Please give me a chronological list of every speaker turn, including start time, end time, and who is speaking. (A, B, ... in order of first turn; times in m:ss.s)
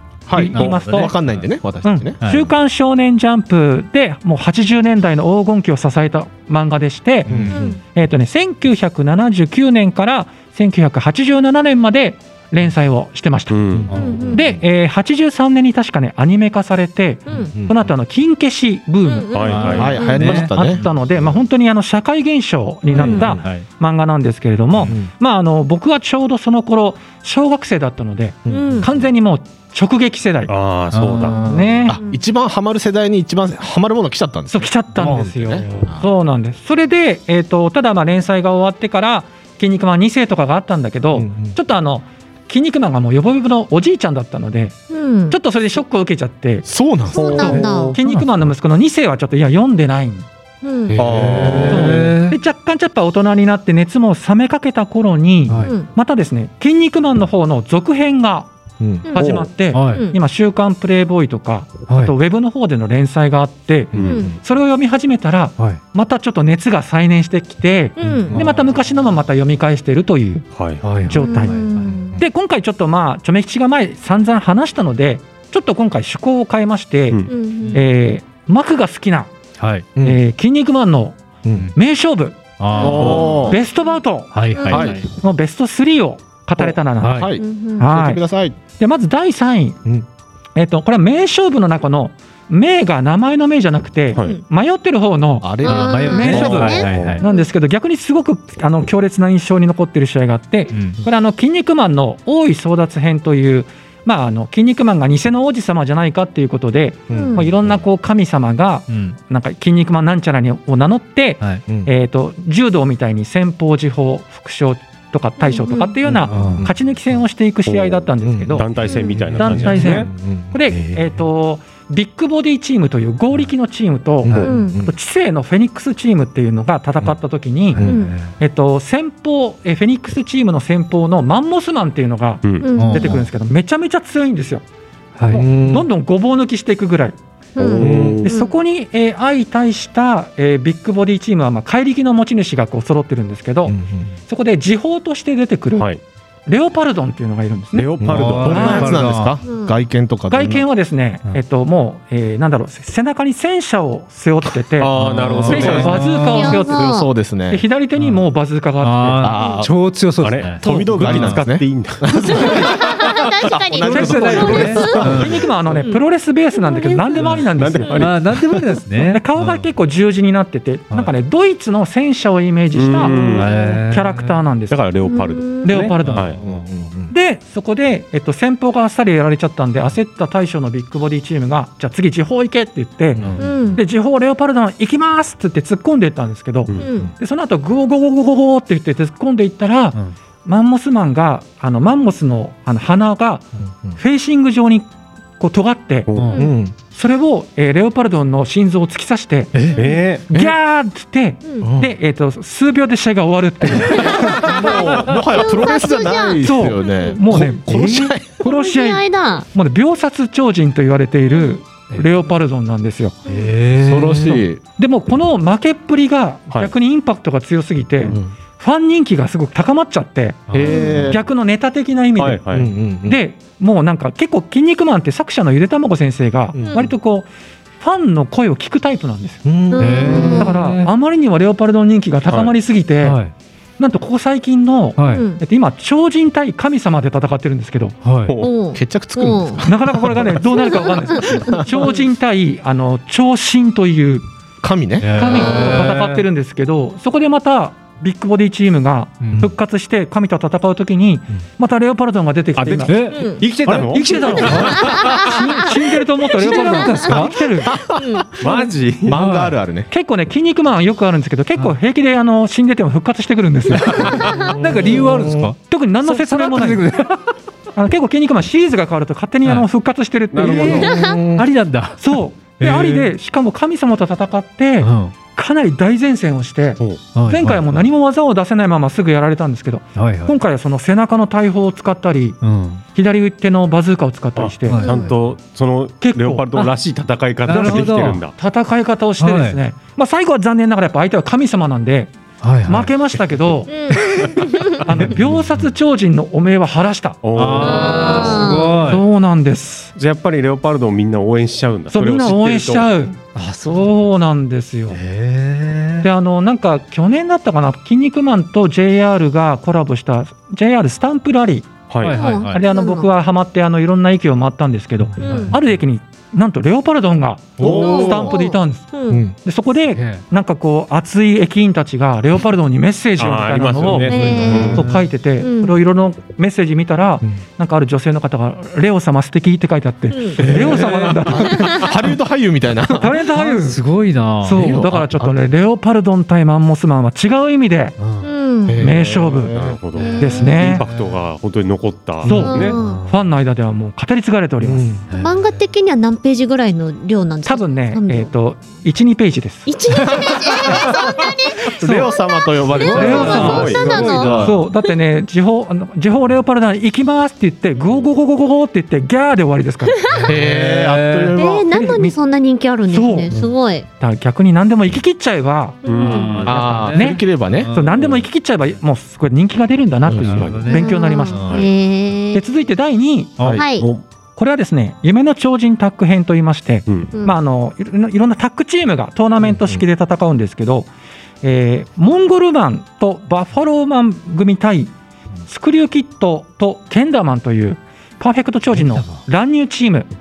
0:00.3-0:02.2 A
0:00.3-0:01.2 B
0:00.5-0:01.1 C
0:01.8-0:13.6 B
0:02.2-0:02.5 C
0:07.3-0:07.6 C
0:07.3-0:07.6 A
0:07.5-0:07.8 D
0:13.5-0:13.9 E
0:13.8-0:14.1 A
0:13.9-0:14.2 C
0:13.9-0:14.5 D
0:14.3-0:30.5 B
0:17.3-0:17.5 D
0:17.6-0:17.9 A
0:19.0-0:20.3 D
0:19.3-0:20.0 E
0:19.5-0:20.9 C
0:19.8-0:20.8 A
0:23.0-0:23.6 C
0:23.0-0:23.3 D
0:28.5-0:28.9 A
0:28.5-0:28.9 D
0:30.5-0:31.4 E
0:30.9-0:31.9 C
0:31.1-0:32.0 B
0:31.9-0:36.1 A
0:34.5-0:46.7 B
0:41.2-0:41.6 A
0:44.9-0:45.4 D
0:46.6-0:47.8 A
0:47.1-0:48.0 D
0:47.2-0:50.3 B
0:47.2-0:47.6 E
0:48.0-0:48.3 C
0:50.6-0:51.0 D
0:50.9-0:52.1 A
0:51.0-0:51.9 E
0:51.2-0:52.4 C
0:51.7-0:58.5 B
0:55.6-0:55.9 D
0:58.8-0:59.1 A
0:59.0-1:00.2 D
0:59.1-1:10.5 B
0:59.2-0:59.5 E
0:59.7-1:00.1 C
1:01.9-1:02.1 C
1:03.9-1:04.4 A
1:03.9-1:04.2 E
1:04.0-1:04.4 D
1:08.0-1:08.3 D
1:10.6-1:10.8 E
1:10.8-1:12.1 C
1:11.0-1:11.7 B
1:11.2-1:12.2 D
1:12.2-1:19.3 B
1:17.3-1:17.8 D
1:19.6-1:19.9 C
1:20.0-1:21.2 B
1:21.8-1:28.2 B
1:22.6-1:23.2 C
1:22.8-1:23.6 A
1:22.8-1:23.5 D
1:22.9-1:23.4 E
1:24.3-1:25.0 C
1:24.5-1:25.0 D
1:24.7-1:25.0 A
1:26.6-1:28.6 A
1:27.0-1:27.3 C
1:27.4-1:27.9 D
1:28.8-1:29.8 B
1:30.6-1:58.7 B
1:35.4-1:37.0 A
1:35.6-1:37.5 D
1:35.8-1:37.2 C
1:36.4-1:37.2 E
1:40.7-1:41.0 C
1:47.1-1:47.5 D
1:47.1-1:47.5 A
1:48.9-1:49.2 C
1:55.4-1:56.1 D
1:56.1-1:56.7 A
1:56.3-1:56.7 C
1:57.7-2:00.1 E
1:58.2-1:58.6 A
1:58.9-1:59.2 D
1:59.4-2:07.8 B
1:59.4-1:59.8 C
2:00.0-2:00.9 A
2:04.2-2:04.9 A
2:04.4-2:04.9 D
2:07.8-2:08.0 A
2:07.8-2:08.2 D
2:07.8-2:08.3 C
2:08.4-2:14.6 B
2:12.4-2:12.7 E
2:12.6-2:13.2 D
2:12.8-2:13.3 C
2:15.2-2:15.4 C
2:15.3-2:15.9 A
2:15.3-2:17.2 B
2:17.6-2:18.6 D
2:17.6-2:18.3 E
2:17.8-2:18.2 A
2:18.2-2:25.9 B
2:23.7-2:24.1 A
2:26.5-2:29.0 B
2:27.7-2:28.9 E
2:28.0-2:30.6 A
2:28.1-2:29.4 C
2:29.4-2:29.7 D
2:30.3-2:34.9 B
2:34.8-2:36.0 E
2:35.0-2:36.6 C
2:35.4-2:36.0 A
2:35.4-2:39.3 B
2:36.2-2:37.1 D
2:36.6-2:37.6 A
2:38.0-2:38.2 C
2:38.8-2:41.4 C
2:39.2-2:39.8 A
2:39.4-2:39.7 D
2:40.2-2:42.5 E
2:40.6-2:45.6 A
2:42.3-2:45.2 D
2:43.8-2:45.4 C
2:43.9-2:48.1 B
2:45.7-2:47.3 D
2:47.2-2:49.7 C
2:47.6-2:48.5 E
2:49.0-2:54.8 B
2:52.7-2:53.5 E
2:53.3-2:54.4 C
2:54.7-2:56.4 E
2:55.0-2:55.8 D
2:55.6-2:56.4 B
2:56.0-2:56.6 C
2:56.4-2:57.1 A
2:57.1-3:13.5 B
3:03.2-3:03.5 A
3:03.2-3:03.4 C
3:03.4-3:03.8 D
3:06.7-3:07.0 E
3:06.8-3:07.1 D
3:14.0-3:14.9 B
3:15.4-3:16.1 B
3:16.1-3:16.4 E
3:16.3-3:16.6 D
3:16.3-3:16.7 A
3:16.9-3:19.5 B
3:19.8-3:20.2 E
3:20.3-3:24.6 B
3:21.6-3:21.9 A
3:23.8-3:28.4 A
3:24.1-3:27.2 D
3:26.4-3:33.2 B
3:28.4-3:29.5 D
3:31.3-3:31.6 D
3:33.3-3:33.5 D
3:33.3-3:34.4 C
3:33.8-3:34.6 A
3:34.8-3:40.5 B
3:38.0-3:38.3 A
3:40.5-3:40.8 C
3:40.5-3:41.2 A
3:40.6-3:41.1 D
3:41.1-3:42.4 B
3:42.2-3:42.7 E
3:42.5-3:43.2 A
3:43.1-3:47.3 B
3:46.5-3:46.9 A
3:46.6-3:46.9 D
3:47.8-3:49.4 B
3:49.4-3:50.4 A
3:49.7-3:50.6 D
3:49.8-3:50.9 C
3:50.1-3:53.2 B
3:53.0-3:53.3 C
3:53.8-3:58.0 B
3:55.0-3:55.2 C
3:55.0-3:55.4 D
3:58.0-3:58.3 C
3:58.4-3:59.6 D
3:58.6-4:00.7 A
3:59.6-4:04.2 B
4:00.6-4:02.0 D
4:04.6-4:05.6 A
4:05.0-4:06.2 C
4:05.1-4:13.1 B
4:09.2-4:09.5 C
4:12.6-4:15.2 E
4:12.9-4:15.2 C
4:13.1-4:13.5 D
4:13.9-4:17.8 B
4:14.8-4:15.1 D
4:16.4-4:17.3 D
4:16.4-4:17.4 C
4:17.7-4:18.0 A
4:17.8-4:18.6 D
4:18.4-4:19.2 E
4:19.1-4:19.9 A
4:19.1-4:19.5 C
4:19.9-4:24.3 B
4:23.9-4:27.2 C
4:24.2-4:25.5 A
4:25.7-4:26.9 B
4:27.8-4:30.9 B
4:30.3-4:30.9 E
4:30.4-4:32.0 C
4:30.6-4:31.5 A
4:30.9-4:31.2 D
4:32.0-4:42.4 B
4:32.6-4:33.1 C
4:34.8-4:35.1 C
4:37.2-4:37.8 C
4:40.0-4:40.4 C
4:42.4-4:42.8 C
4:43.0-4:44.8 B
4:44.4-4:48.3 E
4:44.7-4:45.0 C
4:44.8-4:45.1 D
4:46.0-4:46.7 B
4:47.5-4:48.2 C
4:48.4-4:52.1 B
4:49.2-4:49.6 C
4:52.4-4:52.9 C
4:52.6-4:53.7 B
4:53.7-4:54.8 D
4:54.8-4:57.2 B
4:55.0-4:55.6 C
4:57.2-4:58.5 E
4:57.4-4:59.0 C
4:57.6-4:58.8 D
4:57.9-4:59.9 B
5:00.0-5:02.9 E
5:01.9-5:05.0 B
5:03.4-5:03.9 C
5:04.9-5:06.1 C
5:06.0-5:31.9 B
5:11.9-5:12.2 E
5:12.0-5:12.6 C
5:12.1-5:13.1 D
5:15.2-5:15.6 C
5:15.2-5:15.5 D
5:17.6-5:18.1 C
5:17.6-5:18.3 E
5:17.6-5:19.2 D
5:20.0-5:20.2 C
5:23.2-5:24.8 E
5:24.0-5:24.8 D
5:24.3-5:25.1 C
5:25.4-5:25.8 D
5:30.1-5:30.4 D
5:30.4-5:33.2 A
5:30.8-5:31.2 C
5:32.9-5:33.8 B
5:33.3-5:34.8 C
5:34.4-5:38.0 B
5:34.5-5:35.3 A
5:38.0-5:38.3 C
5:38.2-5:38.9 D
5:38.7-5:39.8 A
5:38.8-5:39.6 B
5:39.6-5:42.8 E
5:40.0-5:40.7 D
5:40.2-5:40.8 B
5:40.8-5:41.1 C
5:42.2-5:45.0 B
5:42.3-5:43.2 C
5:42.4-5:43.0 D
5:44.6-5:45.0 A
5:45.1-5:45.6 C
5:45.1-5:48.3 D
5:47.4-5:49.7 B
5:49.7-5:54.9 D
5:50.2-5:51.2 A
5:51.8-5:52.1 B
5:51.8-5:54.6 A
5:52.8-6:00.0 B
5:53.0-5:54.0 E
5:53.2-5:54.5 C
6:00.1-6:01.3 C
6:00.3-6:01.7 A
6:01.3-6:03.9 D
6:01.7-6:02.2 B
6:02.9-6:03.3 B
6:04.0-6:05.8 B
6:05.8-6:06.4 D
6:05.9-6:06.6 E
6:06.0-6:08.2 C
6:06.4-6:07.7 A
6:06.6-6:11.6 B
6:10.1-6:11.7 C
6:10.2-6:10.7 E
6:10.6-6:12.4 D
6:12.3-6:13.5 B
6:13.6-6:13.9 D
6:14.4-6:20.9 B
6:19.5-6:19.8 A
6:21.4-6:24.9 B
6:25.5-6:30.1 B
6:28.8-6:29.2 C